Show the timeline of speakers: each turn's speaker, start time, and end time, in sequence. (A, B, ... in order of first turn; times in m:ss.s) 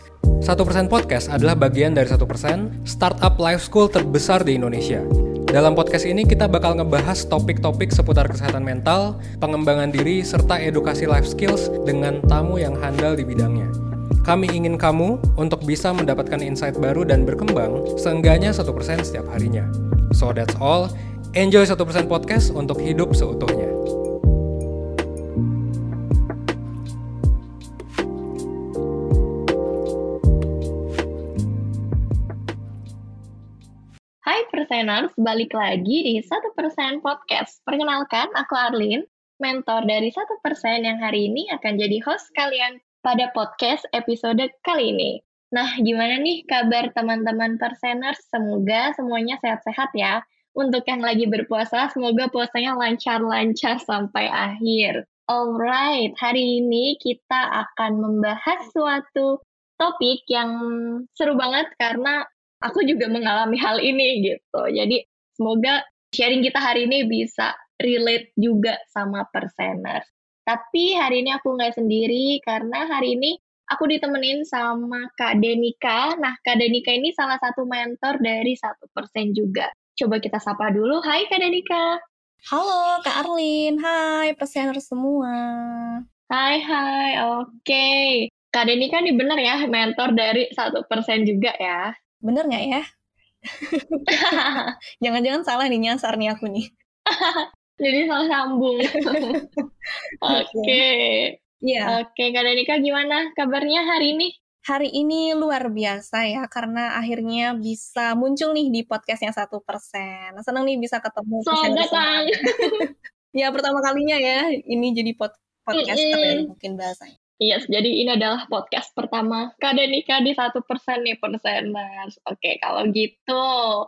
0:00.4-0:13.7 A
0:14.2-0:23.7 A
0:34.3-0:59.3 B
0:59.8-1:00.5 B
1:01.2-1:02.2 B
1:02.7-1:21.9 B
1:22.5-1:26.0 C
1:26.3-1:31.9 B
1:32.3-1:32.8 C
1:33.7-1:36.6 C
1:34.1-1:34.7 B
1:37.1-1:39.4 B
1:39.3-1:39.6 C
1:40.3-1:41.3 B
1:40.3-1:40.8 C
1:41.6-1:42.0 C
1:41.9-1:44.3 B
1:44.7-1:52.3 C
1:51.4-1:52.7 B
1:53.4-1:57.1 C
1:55.7-1:56.5 B
1:57.4-2:03.4 B